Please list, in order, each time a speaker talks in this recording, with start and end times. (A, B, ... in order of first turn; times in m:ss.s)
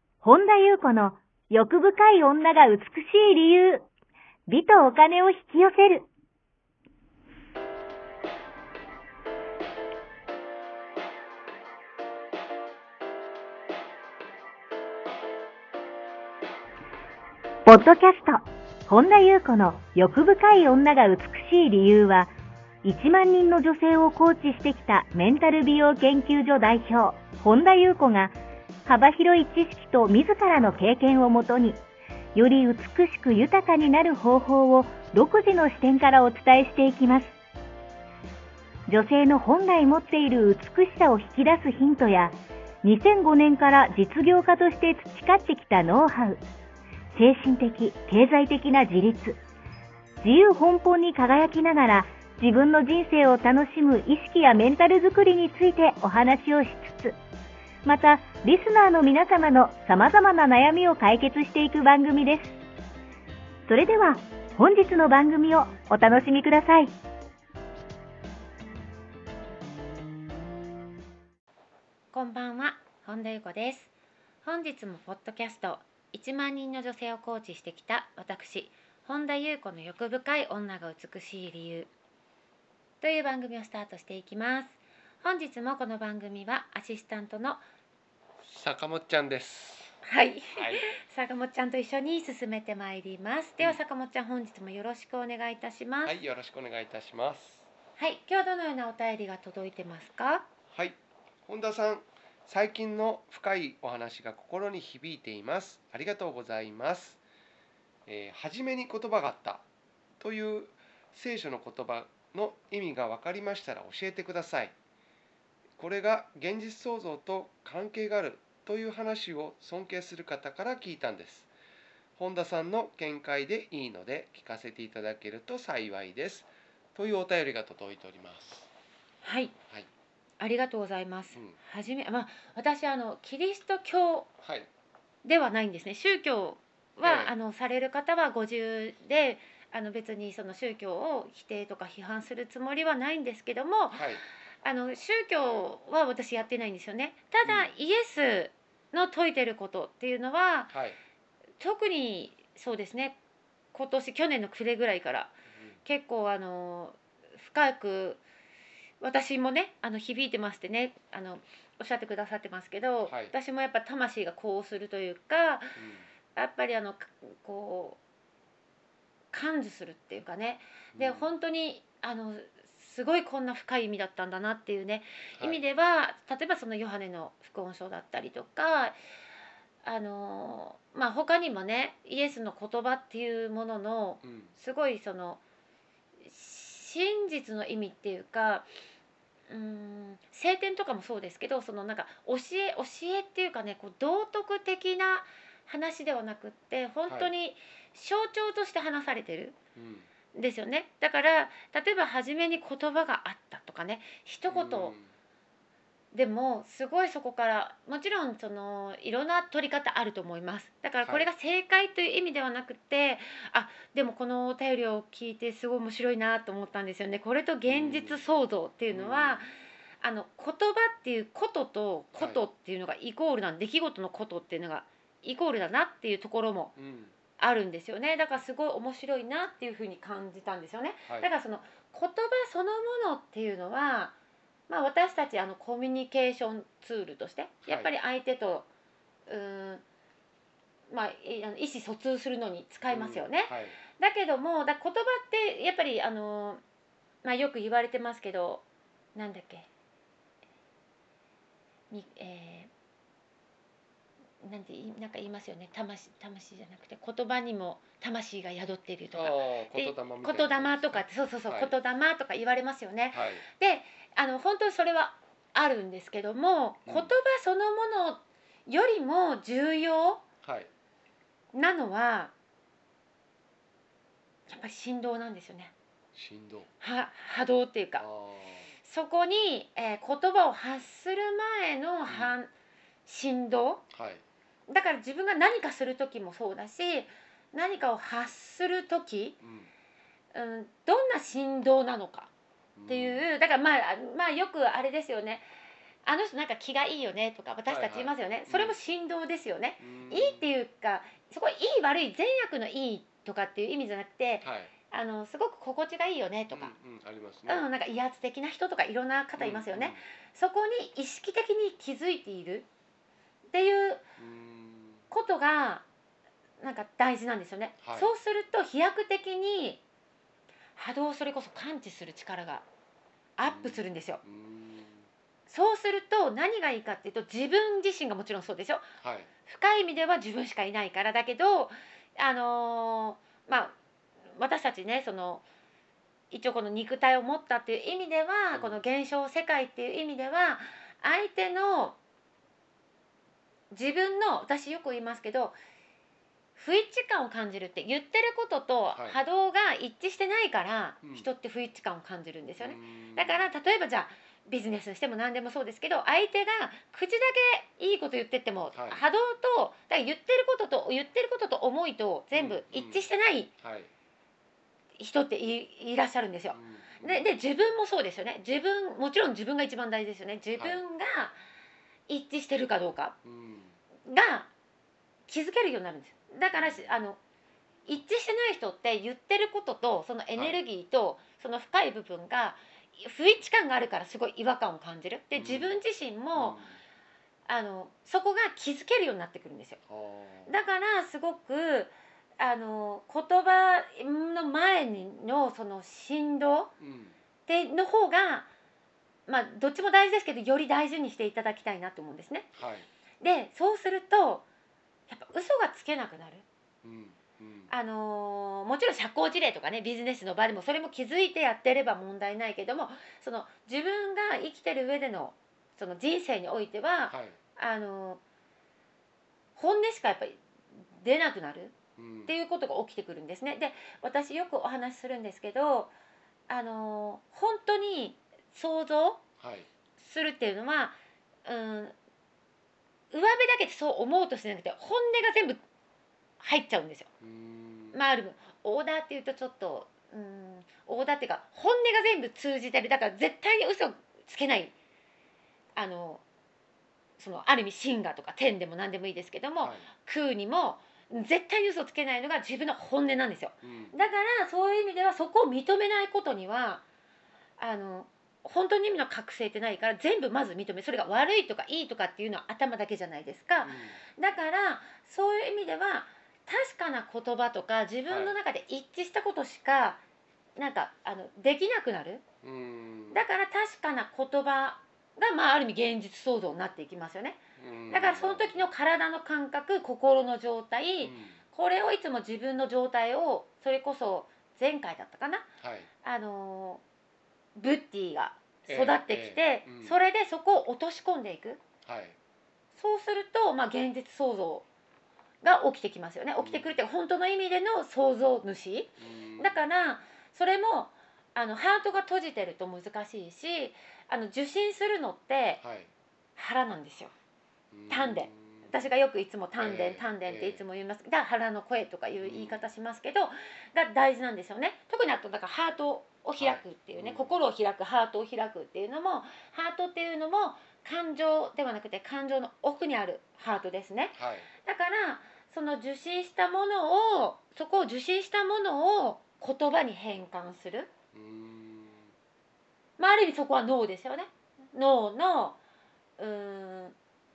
0:00.2-0:03.8 A
0:04.5-0:06.1 A
0:17.6-0:22.3 A
0:22.8-0:31.8 A
0:32.3-0:37.4 A
0:38.9-0:46.4 A
0:47.1-0:49.4 A
0:50.2-0:57.2 A
0:57.8-1:02.6 A
1:03.7-1:06.9 A
1:12.1-1:13.9 B
1:14.4-1:21.9 B
1:23.0-1:27.6 B
1:28.4-1:29.9 C
1:30.0-1:36.2 B
1:30.6-1:30.9 C
1:36.0-1:37.7 C
1:38.0-1:40.5 B
1:40.7-1:47.2 C
1:48.0-1:49.6 C
1:50.2-1:54.7 C
1:55.8-2:01.5 C
2:02.2-2:08.7 C
2:09.2-2:09.6 B
2:10.4-2:14.3 B
2:14.4-2:14.7 C
2:15.2-2:24.1 B
2:17.0-2:17.3 C
2:23.9-2:24.2 C
2:24.6-2:30.7 B
2:27.4-2:27.7 C
2:30.7-2:31.0 C
2:31.6-2:33.2 B
2:33.7-2:35.3 B
2:35.8-2:38.2 B
2:39.0-2:45.8 B
2:43.0-2:43.3 C
2:45.8-2:46.0 C
2:46.3-2:48.0 B
2:49.3-2:59.0 B
2:50.9-2:51.3 C
2:55.4-2:55.6 C
2:59.8-3:05.4 B
3:04.2-3:04.5 C
3:06.2-3:08.7 B
3:09.5-3:19.6 B
3:17.1-3:17.3 C
3:19.8-3:20.1 C
3:20.3-3:24.9 B
3:24.5-3:25.1 C
3:26.1-3:39.5 B
3:31.0-3:31.3 C
3:37.6-3:38.3 C
3:38.9-3:39.5 C
3:40.0-3:46.7 B
3:42.1-3:42.4 C
3:46.8-3:47.1 C
3:47.4-3:54.2 B
3:54.7-3:58.7 B
3:57.6-3:57.9 C
3:59.3-3:59.8 B
4:00.9-4:06.6 B
4:02.9-4:03.8 C
4:07.2-4:09.6 B
4:11.9-4:12.7 B
4:14.4-4:30.2 B
4:19.1-4:21.7 C
4:23.1-4:23.4 C
4:26.8-4:27.1 C
4:30.4-4:30.7 C
4:31.5-4:32.3 B
4:34.5-4:35.7 B
4:36.1-4:36.7 C
4:36.8-4:38.0 B
4:38.0-4:38.7 C
4:38.8-4:42.5 B
4:42.1-4:42.3 C
4:43.0-4:43.8 B
4:43.9-4:44.2 C
4:44.7-4:49.4 B
4:49.4-4:49.7 C
4:50.3-4:52.3 B
4:52.7-4:53.2 C
4:52.9-4:55.4 B
4:56.0-5:06.7 B
4:57.6-4:58.8 C
4:59.8-5:00.5 C
5:04.4-5:04.7 C
5:06.5-5:07.6 C
5:07.5-5:12.7 B
5:09.4-5:10.0 C
5:13.5-5:14.0 B
5:14.2-5:15.0 C
5:15.1-5:15.8 B
5:16.6-5:19.8 B
5:17.8-5:18.1 C
5:20.8-5:22.6 B
5:23.4-5:24.2 B
5:23.4-5:25.1 C
5:25.5-5:28.8 B
5:29.0-5:29.3 C
5:29.4-5:33.7 B
5:34.4-5:35.4 B
5:36.3-5:42.0 B
5:38.5-5:38.8 C
5:43.7-5:45.6 B
5:46.6-6:03.5 B
5:48.9-5:49.2 C
5:51.0-5:51.3 C
5:52.6-5:53.5 C
5:58.7-5:59.0 C
6:02.3-6:03.9 C
6:05.0-6:11.4 B
6:06.5-6:07.4 C
6:10.6-6:10.8 C
6:12.1-6:13.2 B
6:13.2-6:13.8 C
6:14.0-6:14.5 B
6:15.3-6:17.2 B
6:16.5-6:16.9 C
6:17.8-6:26.6 B
6:20.4-6:20.6 C
6:25.3-6:25.8 C
6:26.3-6:26.8 C
6:27.4-6:29.8 B
6:29.9-6:30.5 C
6:30.5-6:36.7 B
6:36.8-6:37.2 C
6:37.4-6:38.5 B
6:39.3-6:42.5 B
6:42.6-6:42.9 C
6:43.2-6:44.4 B
6:45.1-6:46.4 B
6:46.8-6:47.7 C
6:47.7-6:58.2 B
6:57.1-6:57.4 C
6:59.6-7:00.4 B
7:00.9-7:05.9 B
7:02.0-7:02.3 C
7:06.5-7:09.2 B
7:09.4-7:09.7 C
7:10.0-7:11.9 B
7:13.1-7:15.6 B
7:16.4-7:17.1 B
7:17.2-7:18.0 C
7:17.9-7:24.7 B
7:25.7-7:26.2 B
7:27.2-7:36.8 B
7:29.6-7:29.8 C
7:33.6-7:33.9 C
7:37.6-7:50.0 B
7:43.6-7:44.0 C
7:48.1-7:48.4 C
7:50.6-7:52.2 B
7:52.4-7:53.2 C
7:53.1-8:05.5 B
7:57.6-7:58.7 C
8:01.0-8:01.4 C
8:05.6-8:05.9 C
8:06.0-8:06.8 B
8:07.6-8:11.6 B
8:08.7-8:10.0 C
8:11.8-8:12.2 C
8:12.8-8:14.6 B
8:15.4-8:25.6 B
8:16.4-8:16.8 C
8:19.0-8:19.6 C
8:25.6-8:25.9 C
8:26.4-8:27.1 B
8:27.7-8:28.9 C
8:27.9-8:50.9 B
8:29.6-8:30.6 C
8:32.2-8:32.7 C
8:36.4-8:37.4 C
8:44.1-8:44.5 C
8:51.1-8:52.1 C
8:53.0-8:55.6 B
8:56.2-8:57.0 B